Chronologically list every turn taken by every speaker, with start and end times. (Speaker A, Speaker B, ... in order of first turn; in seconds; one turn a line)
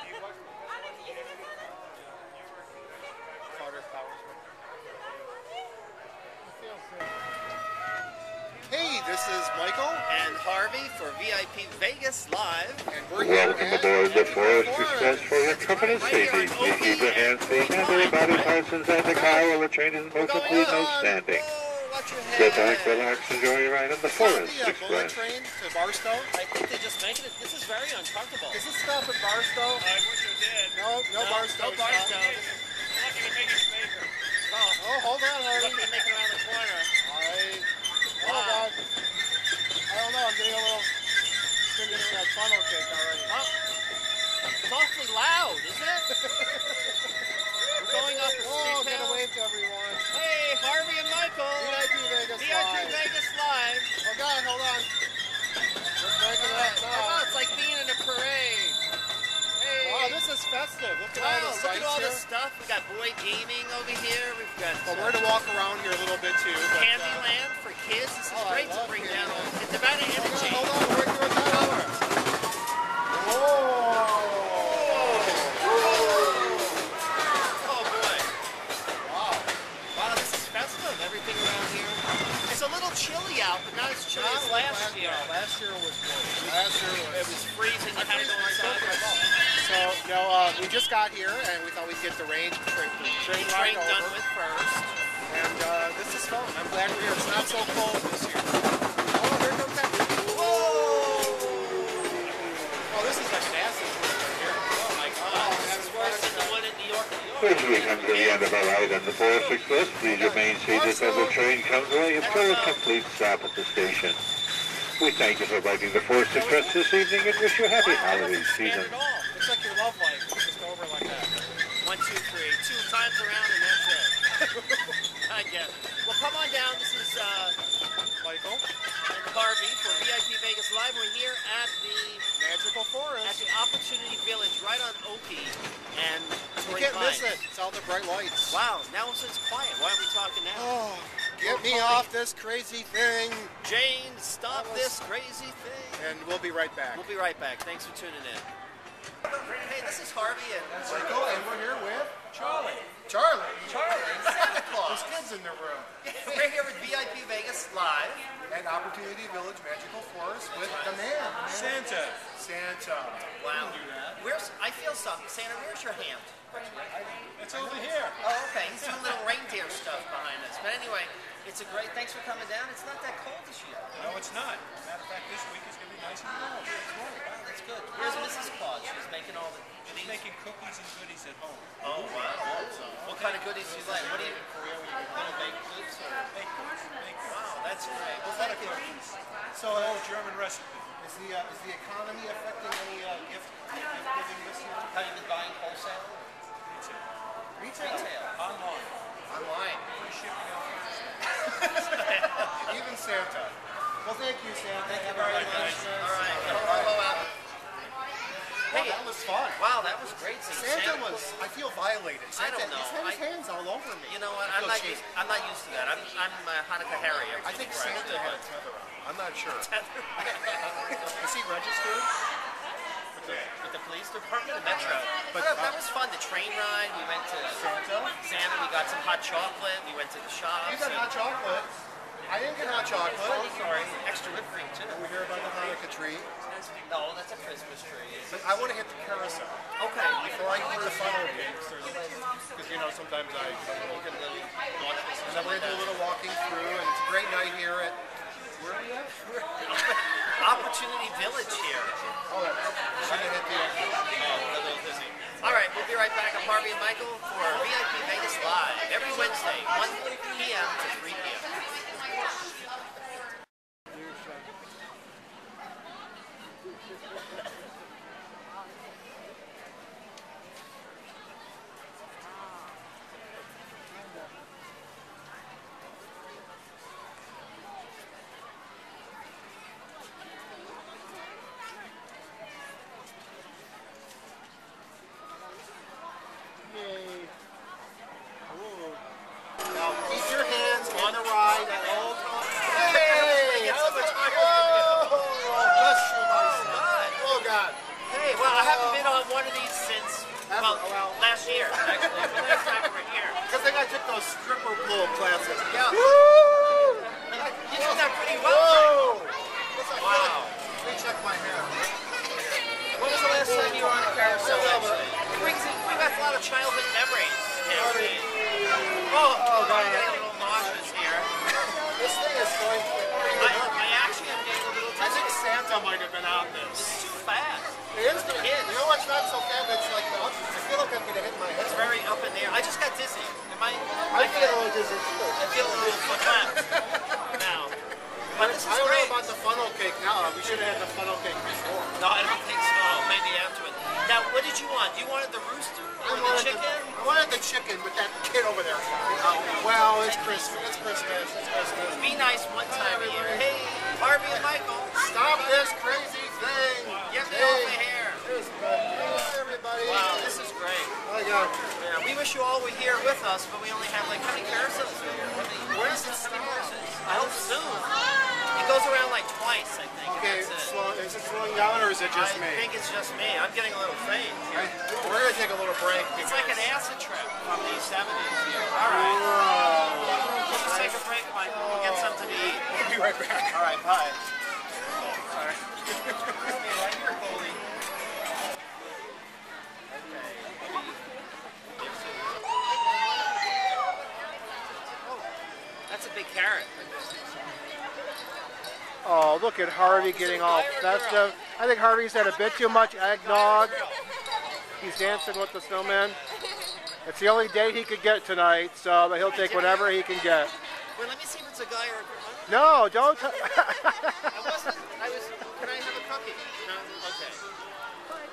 Speaker A: 3.5-4.5
Speaker A: 6.5-7.1
Speaker A: 8.7-10.1
Speaker B: 10.1-12.9
Speaker A: 12.9-16.1
Speaker C: 13.2-21.4
Speaker B: 14.1-18.6
Speaker A: 19.1-19.5
Speaker B: 20.1-23.3
Speaker A: 20.5-21.2
Speaker C: 22.3-25.2
Speaker A: 24.1-26.3
Speaker B: 26.3-28.6
Speaker A: 28.5-29.9
Speaker D: 29.8-30.7
Speaker A: 30.7-32.3
Speaker B: 31.1-32.6
Speaker D: 33.0-34.1
Speaker B: 34.5-34.9
Speaker A: 34.8-36.0
Speaker B: 35.5-36.9
Speaker A: 37.0-38.8
Speaker B: 38.2-38.7
Speaker A: 39.9-40.9
Speaker A: 41.7-43.4
Speaker B: 41.8-42.2
Speaker B: 43.3-43.5
Speaker B: 44.6-46.1
Speaker A: 46.1-47.0
Speaker B: 47.8-49.3
Speaker A: 47.8-50.1
Speaker B: 50.1-54.0
Speaker A: 51.6-53.0
Speaker A: 54.0-54.9
Speaker A: 56.0-57.3
Speaker B: 56.3-58.8
Speaker B: 59.6-60.2
Speaker A: 59.8-62.2
Speaker B: 61.1-65.2
Speaker A: 64.8-67.3
Speaker B: 66.7-70.8
Speaker A: 68.3-71.9
Speaker B: 71.4-72.0
Speaker A: 73.1-76.1
Speaker B: 74.6-76.9
Speaker B: 77.6-78.3
Speaker A: 79.0-79.5
Speaker B: 79.9-85.3
Speaker A: 84.1-87.3
Speaker B: 87.1-89.3
Speaker A: 87.9-94.2
Speaker B: 93.0-94.9
Speaker A: 95.3-100.8
Speaker B: 100.3-102.4
Speaker A: 102.5-106.6
Speaker B: 104.8-110.0
Speaker C: 107.4-114.2
Speaker A: 110.0-111.7
Speaker B: 112.2-112.8
Speaker A: 112.2-112.8
Speaker C: 115.0-118.9
Speaker A: 116.3-116.8
Speaker B: 117.8-119.3
Speaker A: 119.3-121.3
Speaker B: 121.8-124.2
Speaker A: 124.4-125.0
Speaker B: 125.2-127.6
Speaker A: 128.2-128.7
Speaker B: 129.1-132.3
Speaker A: 132.4-133.4
Speaker B: 133.2-137.4
Speaker A: 136.7-138.6
Speaker B: 138.5-140.8
Speaker A: 140.5-143.6
Speaker B: 141.4-142.1
Speaker B: 143.6-146.1
Speaker A: 144.5-145.0
Speaker A: 146.0-147.1
Speaker B: 146.9-148.5
Speaker B: 149.3-151.4
Speaker A: 150.7-152.2
Speaker D: 152.3-152.8
Speaker A: 153.1-156.5
Speaker B: 153.6-155.2
Speaker B: 156.0-158.3
Speaker A: 158.5-163.3
Speaker B: 160.5-161.2
Speaker D: 161.5-162.2
Speaker B: 163.4-166.9
Speaker D: 163.5-164.2
Speaker A: 166.9-168.1
Speaker D: 167.2-168.2
Speaker B: 168.2-174.1
Speaker D: 174.0-177.0
Speaker B: 177.1-180.2
Speaker D: 179.9-183.4
Speaker B: 181.8-184.4
Speaker A: 182.1-185.6
Speaker B: 185.1-186.3
Speaker D: 186.3-189.2
Speaker B: 187.2-188.9
Speaker A: 188.2-188.8
Speaker A: 189.5-190.1
Speaker D: 189.7-190.9
Speaker A: 191.0-194.9
Speaker B: 194.8-196.4
Speaker D: 196.7-197.1
Speaker A: 197.6-198.1
Speaker B: 197.8-198.3
Speaker D: 198.4-198.9
Speaker A: 199.3-199.9
Speaker D: 199.9-201.2
Speaker A: 201.5-207.2
Speaker B: 201.9-202.8
Speaker B: 204.8-207.3
Speaker D: 205.1-205.9
Speaker A: 208.7-209.6
Speaker B: 208.7-211.3
Speaker A: 210.5-215.1
Speaker B: 212.3-213.2
Speaker B: 214.1-218.4
Speaker A: 217.4-222.1
Speaker B: 219.6-221.2
Speaker A: 223.2-223.5
Speaker B: 223.2-227.6
Speaker A: 224.9-225.8
Speaker A: 227.6-228.2
Speaker B: 228.2-231.1
Speaker A: 230.6-231.7
Speaker A: 232.3-233.6
Speaker B: 233.1-235.1
Speaker A: 234.9-236.3
Speaker B: 236.8-238.3
Speaker A: 238.3-239.6
Speaker B: 239.8-241.3
Speaker A: 240.2-244.1
Speaker B: 243.7-246.0
Speaker A: 245.2-248.0
Speaker A: 248.6-249.5
Speaker B: 249.7-251.9
Speaker A: 252.3-254.1
Speaker B: 253.0-253.6
Speaker B: 254.1-261.8
Speaker A: 286.6-287.3
Speaker A: 288.5-289.0
Speaker A: 289.7-292.1
Speaker B: 290.9-295.4
Speaker A: 292.6-297.8
Speaker B: 296.1-297.2
Speaker B: 298.1-303.4
Speaker A: 298.4-299.2
Speaker A: 300.5-302.9
Speaker A: 303.5-315.6
Speaker B: 305.4-306.3
Speaker B: 307.3-309.1
Speaker B: 309.9-310.6
Speaker B: 313.0-318.3
Speaker A: 317.7-323.8
Speaker B: 319.1-321.3
Speaker B: 323.4-325.4
Speaker A: 325.0-327.0
Speaker B: 326.7-328.9
Speaker A: 327.9-331.9
Speaker B: 331.6-334.7
Speaker A: 334.1-337.4
Speaker B: 335.4-336.7
Speaker B: 337.3-337.8
Speaker A: 338.3-342.0
Speaker B: 338.3-339.2
Speaker B: 342.0-347.0
Speaker A: 346.0-353.5
Speaker B: 349.4-351.3
Speaker B: 351.9-355.0
Speaker A: 354.3-360.4
Speaker B: 357.1-358.2
Speaker B: 359.8-360.9
Speaker A: 361.1-361.6
Speaker B: 361.8-367.9
Speaker A: 365.7-367.9
Speaker B: 368.5-370.8
Speaker A: 370.1-372.7
Speaker B: 372.1-374.8
Speaker A: 374.5-376.7
Speaker B: 376.1-379.3
Speaker A: 378.9-383.7
Speaker B: 380.3-382.7
Speaker B: 383.5-384.2
Speaker B: 385.1-385.6
Speaker A: 385.9-386.6
Speaker B: 386.4-387.6
Speaker B: 389.9-391.1
Speaker B: 391.8-393.6
Speaker B: 395.0-395.4
Speaker B: 395.9-397.6
Speaker A: 399.0-403.8
Speaker B: 399.8-401.3
Speaker B: 402.5-404.1
Speaker A: 404.8-406.2
Speaker B: 404.9-406.0
Speaker A: 407.1-410.5
Speaker B: 409.2-410.0
Speaker B: 410.9-413.1
Speaker A: 412.5-414.8
Speaker B: 414.3-417.4